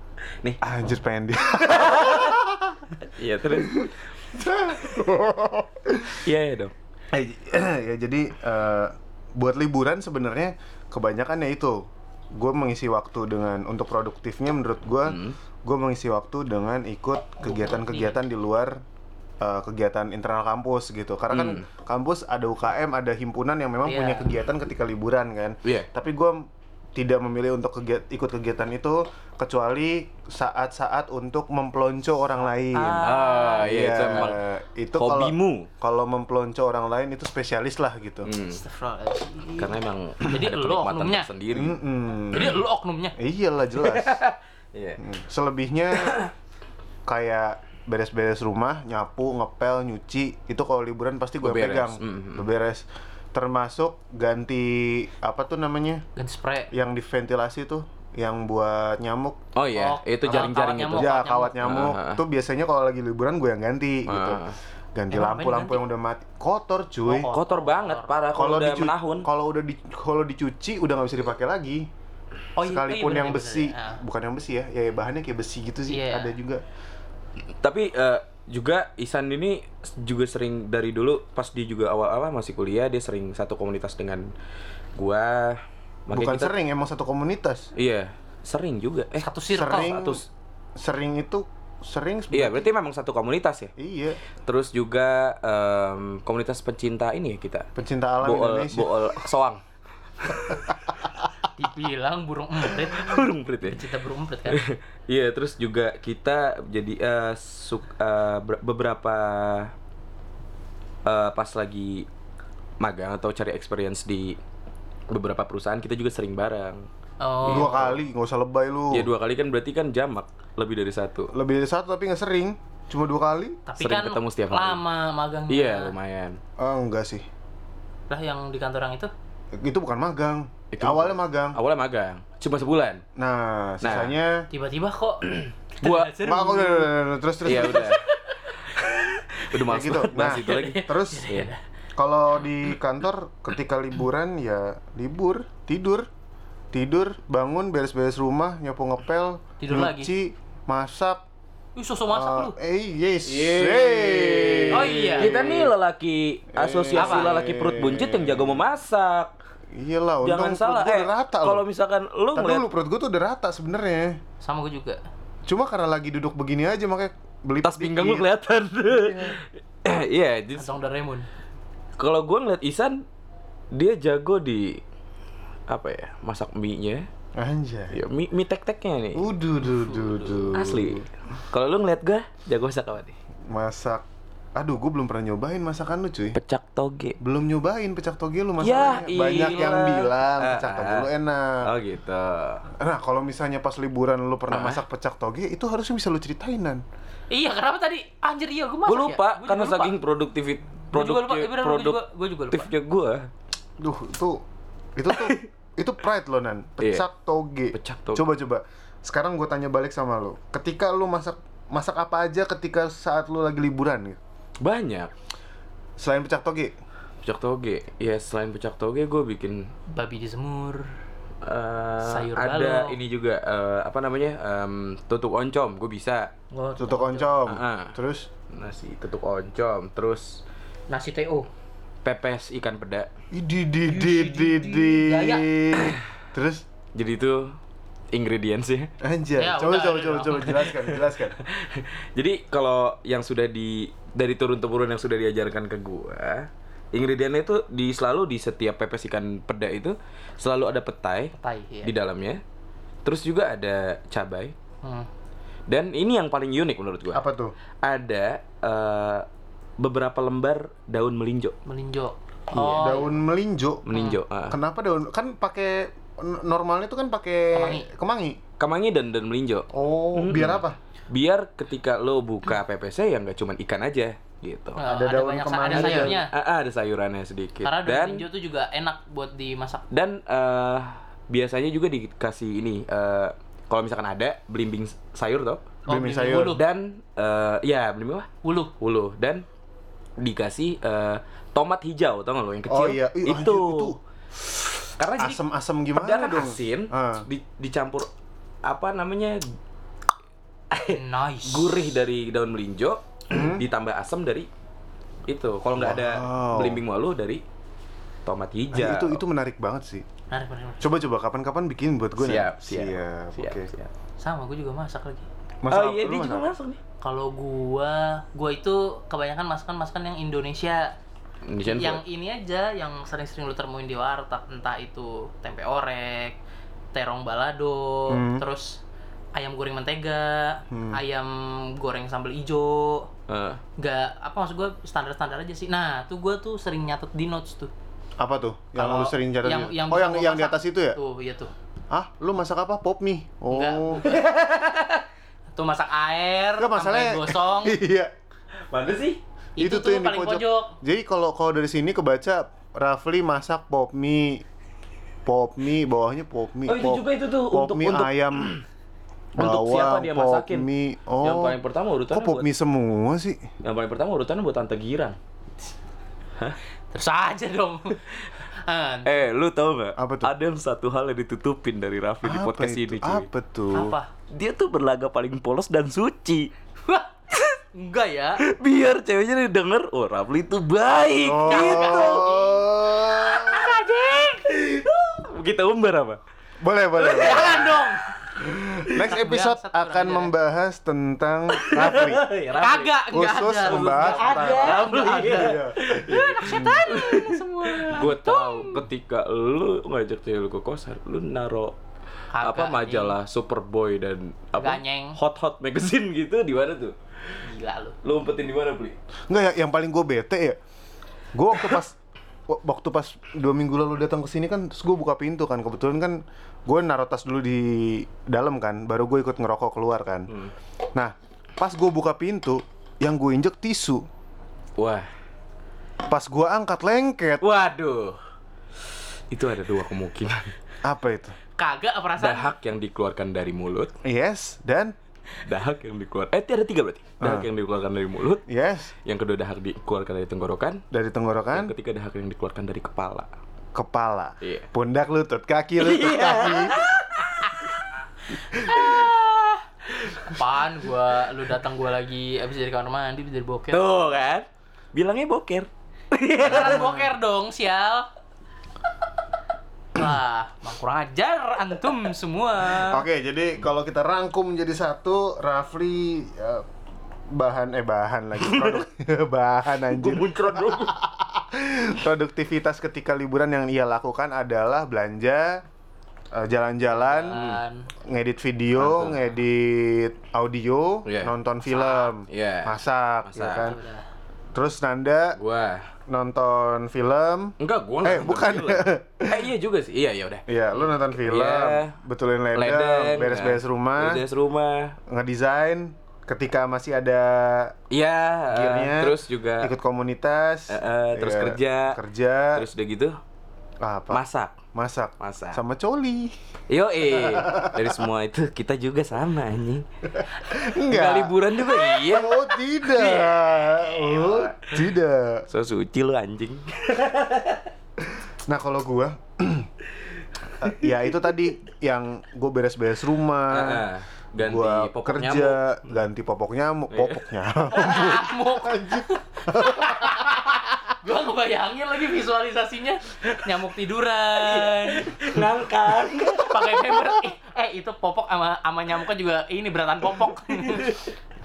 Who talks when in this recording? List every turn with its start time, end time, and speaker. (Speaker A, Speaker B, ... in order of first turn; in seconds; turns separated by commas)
Speaker A: 0.6-2.8, Speaker B: 1.6-2.4, Speaker B: 3.0-3.9, Speaker A: 3.6-6.2, Speaker B: 6.2-6.7, Speaker A: 7.1-18.8, Speaker B: 15.0-15.4, Speaker C: 17.4-18.2, Speaker A: 19.4-38.3, Speaker B: 21.3-21.6, Speaker C: 23.9-24.3, Speaker C: 32.7-33.7, Speaker B: 33.0-34.4, Speaker B: 34.9-35.7, Speaker B: 38.2-38.6, Speaker C: 38.5-41.3, Speaker B: 39.6-41.8, Speaker A: 41.5-42.6, Speaker C: 42.3-43.1, Speaker A: 43.2-44.2, Speaker B: 43.8-45.0, Speaker A: 45.0-46.2, Speaker B: 45.9-46.3, Speaker A: 47.0-56.0, Speaker B: 51.4-52.5, Speaker C: 56.1-56.7, Speaker A: 56.7-59.4, Speaker B: 59.5-62.2, Speaker C: 59.7-61.6, Speaker A: 60.9-64.4, Speaker B: 64.1-64.5, Speaker A: 64.9-67.3, Speaker C: 65.1-65.8, Speaker C: 67.1-68.1, Speaker B: 67.3-69.3, Speaker A: 68.3-71.9, Speaker C: 72.5-74.0, Speaker A: 72.6-76.6, Speaker C: 75.9-76.3, Speaker B: 77.6-84.3, Speaker B: 85.0-86.5, Speaker A: 86.1-87.7, Speaker B: 87.8-90.2, Speaker C: 89.2-90.0, Speaker A: 89.5-90.2, Speaker A: 90.8-92.7, Speaker B: 92.3-93.7, Speaker A: 93.8-94.2, Speaker B: 94.5-97.7, Speaker A: 97.7-99.0, Speaker B: 98.2-99.6, Speaker C: 101.6-104.6, Speaker B: 102.9-103.9, Speaker B: 104.5-109.7, Speaker B: 111.0-112.0, Speaker B: 112.8-114.4, Speaker B: 115.1-116.9, Speaker C: 117.2-117.9, Speaker B: 117.4-117.9, Speaker A: 117.5-119.1, Speaker B: 118.9-121.3, Speaker A: 121.3-123.6, Speaker C: 123.7-125.9, Speaker B: 123.8-124.8, Speaker B: 125.5-126.4, Speaker A: 126.6-127.2, Speaker C: 128.1-129.1, Speaker A: 129.5-131.6, Speaker B: 130.7-133.0, Speaker A: 133.2-134.5, Speaker B: 133.8-134.2, Speaker C: 134.5-136.9, Speaker B: 135.2-136.1, Speaker A: 136.2-138.0, Speaker B: 137.4-138.0, Speaker C: 137.5-138.2, Speaker B: 138.7-141.5, Speaker A: 139.6-141.3, Speaker C: 140.2-141.6, Speaker A: 142.0-146.1, Speaker A: 146.7-151.2, Speaker C: 149.6-150.1, Speaker C: 151.8-152.5, Speaker A: 152.1-155.7, Speaker B: 153.2-159.3, Speaker C: 154.7-155.4, Speaker A: 156.5-158.6, Speaker C: 156.9-157.3, Speaker A: 159.7-161.6, Speaker B: 160.2-162.7, Speaker A: 162.3-164.2, Speaker C: 164.4-165.0, Speaker A: 165.5-168.3, Speaker B: 167.6-170.7, Speaker A: 168.8-169.4, Speaker C: 170.6-171.3, Speaker B: 172.0-173.0, Speaker B: 173.7-174.8, Speaker B: 175.7-177.1, Speaker A: 177.3-178.0, Speaker B: 177.9-179.3, Speaker A: 179.1-181.1, Speaker B: 180.5-183.1, Speaker A: 183.5-184.0, Speaker A: 184.6-186.4, Speaker B: 186.3-187.2, Speaker A: 187.2-191.7, Speaker B: 188.6-191.1, Speaker C: 189.2-190.0, Speaker B: 191.6-192.6, Speaker A: 192.8-196.8, Speaker B: 194.5-194.8, Speaker C: 197.3-199.9, Speaker B: 198.9-202.0, Speaker C: 200.9-202.7, Speaker B: 202.5-203.3, Speaker A: 203.8-204.4, Speaker A: 205.0-214.2, Speaker B: 205.1-205.5, Speaker B: 207.7-208.3, Speaker B: 214.6-215.1, Speaker A: 216.0-216.8, Speaker B: 217.2-219.7, Speaker C: 219.9-220.9, Speaker B: 221.4-226.3, Speaker C: 222.0-222.9, Speaker C: 226.5-227.3, Speaker A: 226.8-228.3, Speaker B: 227.5-227.9, Speaker B: 228.5-230.4, Speaker C: 230.9-231.5, Speaker B: 232.0-233.1, Speaker A: 233.3-236.6, Speaker C: 233.9-235.5, Speaker B: 236.9-237.5, Speaker B: 238.1-238.9, Speaker A: 239.0-241.4, Speaker C: 239.4-240.6, Speaker B: 240.5-252.4, Speaker C: 251.3-251.9, Speaker B: 253.0-254.5, Speaker C: 254.8-255.1, Speaker B: 255.7-257.2, Speaker A: 257.1-257.5, Speaker B: 257.8-259.2, Speaker B: 259.8-261.5, Speaker C: 261.6-263.1, Speaker B: 262.6-262.9, Speaker A: 262.6-263.9, Speaker B: 263.9-264.6, Speaker C: 263.9-264.2, Speaker A: 264.5-268.4, Speaker C: 267.5-267.9, Speaker B: 268.6-274.8, Speaker A: 269.7-270.8, Speaker C: 274.8-276.3, Speaker A: 274.8-276.2, Speaker B: 275.7-278.2, Speaker C: 277.6-279.9, Speaker B: 279.9-285.6, Speaker C: 285.9-286.6, Speaker A: 285.9-286.6, Speaker B: 286.4-289.4, Speaker C: 288.4-288.7, Speaker B: 290.2-293.9, Speaker A: 292.7-294.0, Speaker B: 295.0-295.4, Speaker A: 295.1-297.2, Speaker B: 295.9-298.1, Speaker B: 298.6-299.5, Speaker B: 300.7-304.5, Speaker C: 300.9-301.8, Speaker A: 303.3-303.6, Speaker B: 305.3-307.4, Speaker A: 305.8-306.8, Speaker B: 308.2-309.2, Speaker A: 308.7-310.1, Speaker C: 310.3-310.8, Speaker A: 310.8-313.7, Speaker B: 312.2-313.9, Speaker C: 314.2-315.3, Speaker A: 315.6-316.5, Speaker B: 315.7-316.8, Speaker C: 317.0-320.9, Speaker B: 321.4-322.0, Speaker C: 321.6-326.4, Speaker C: 326.9-328.8, Speaker A: 328.1-328.4, Speaker C: 329.4-333.1, Speaker A: 330.7-331.0, Speaker B: 333.3-333.6, Speaker C: 333.8-337.7, Speaker A: 338.2-341.0, Speaker C: 338.8-341.5, Speaker A: 341.9-344.2, Speaker C: 343.5-344.2, Speaker B: 344.0-345.0, Speaker C: 345.5-347.8, Speaker A: 346.6-348.1, Speaker B: 348.7-349.2, Speaker C: 349.6-350.8, Speaker A: 349.6-354.4, Speaker A: 355.2-358.5, Speaker B: 356.7-358.6, Speaker B: 359.4-360.7, Speaker A: 359.4-361.6, Speaker B: 361.2-362.5, Speaker A: 362.1-363.4, Speaker B: 363.6-365.2, Speaker C: 366.9-368.0, Speaker C: 368.6-369.2, Speaker B: 369.0-373.3, Speaker A: 370.0-370.3, Speaker A: 372.2-373.9, Speaker C: 373.8-374.1, Speaker B: 374.3-376.5, Speaker C: 376.9-377.1, Speaker C: 377.7-378.4, Speaker B: 378.4-382.4, Speaker A: 381.2-383.7, Speaker C: 381.5-382.6, Speaker C: 383.3-384.4, Speaker B: 383.5-383.8, Speaker B: 384.3-386.2, Speaker A: 386.6-387.8, Speaker B: 387.0-388.0, Speaker C: 387.0-388.1, Speaker A: 388.4-392.3, Speaker C: 388.9-390.3, Speaker B: 391.5-401.8, Speaker C: 392.6-398.8, Speaker A: 393.1-396.8, Speaker C: 402.3-403.2, Speaker B: 402.4-406.9, Speaker C: 404.6-405.2, Speaker C: 407.4-408.0, Speaker B: 408.0-409.0, Speaker A: 409.3-410.6, Speaker A: 411.3-412.0, Speaker A: 412.5-420.3, Speaker A: 420.9-424.1, Speaker B: 424.8-425.1, Speaker A: 426.1-427.4, Speaker B: 427.4-428.2, Speaker B: 429.3-430.5, Speaker A: 430.8-431.4, Speaker C: 431.6-432.5, Speaker B: 432.2-433.9, Speaker A: 434.0-434.9, Speaker B: 435.5-438.4, Speaker A: 437.2-437.5, Speaker A: 438.5-438.9, Speaker B: 439.0-440.8, Speaker A: 440.9-441.7, Speaker B: 441.5-443.3, Speaker A: 443.7-446.8, Speaker B: 444.4-444.7, Speaker B: 445.8-447.7, Speaker C: 448.5-453.9, Speaker B: 448.6-448.9, Speaker B: 453.7-457.0, Speaker C: 456.4-458.1, Speaker C: 459.9-463.0, Speaker A: 462.7-466.6, Speaker A: 467.3-475.6, Speaker B: 468.5-468.8, Speaker B: 469.9-471.0, Speaker A: 476.3-477.4, Speaker C: 476.9-477.9, Speaker B: 477.3-477.6, Speaker A: 478.0-483.8, Speaker B: 478.8-479.2, Speaker B: 481.1-481.4, Speaker C: 481.7-482.1, Speaker B: 482.3-482.8, Speaker B: 483.3-483.8, Speaker C: 483.6-484.0, Speaker A: 484.5-485.4, Speaker B: 485.4-485.9, Speaker A: 486.1-489.5, Speaker B: 487.6-490.4, Speaker A: 490.5-494.2, Speaker B: 491.2-491.9, Speaker B: 492.5-495.0, Speaker A: 495.1-497.8, Speaker B: 497.9-499.7, Speaker A: 498.5-502.6, Speaker B: 500.7-502.0, Speaker B: 502.5-503.1, Speaker A: 503.8-504.2, Speaker B: 504.1-504.6, Speaker A: 504.7-506.4, Speaker B: 505.2-505.6, Speaker B: 506.7-509.8, Speaker A: 507.2-508.0, Speaker A: 510.2-515.5, Speaker B: 510.5-514.8, Speaker B: 515.5-517.6, Speaker A: 518.0-519.7, Speaker A: 520.6-523.9, Speaker B: 523.5-525.6, Speaker A: 524.4-530.4, Speaker B: 526.9-527.2, Speaker C: 527.7-535.2, Speaker B: 534.4-537.1, Speaker C: 536.4-541.0, Speaker B: 540.5-541.1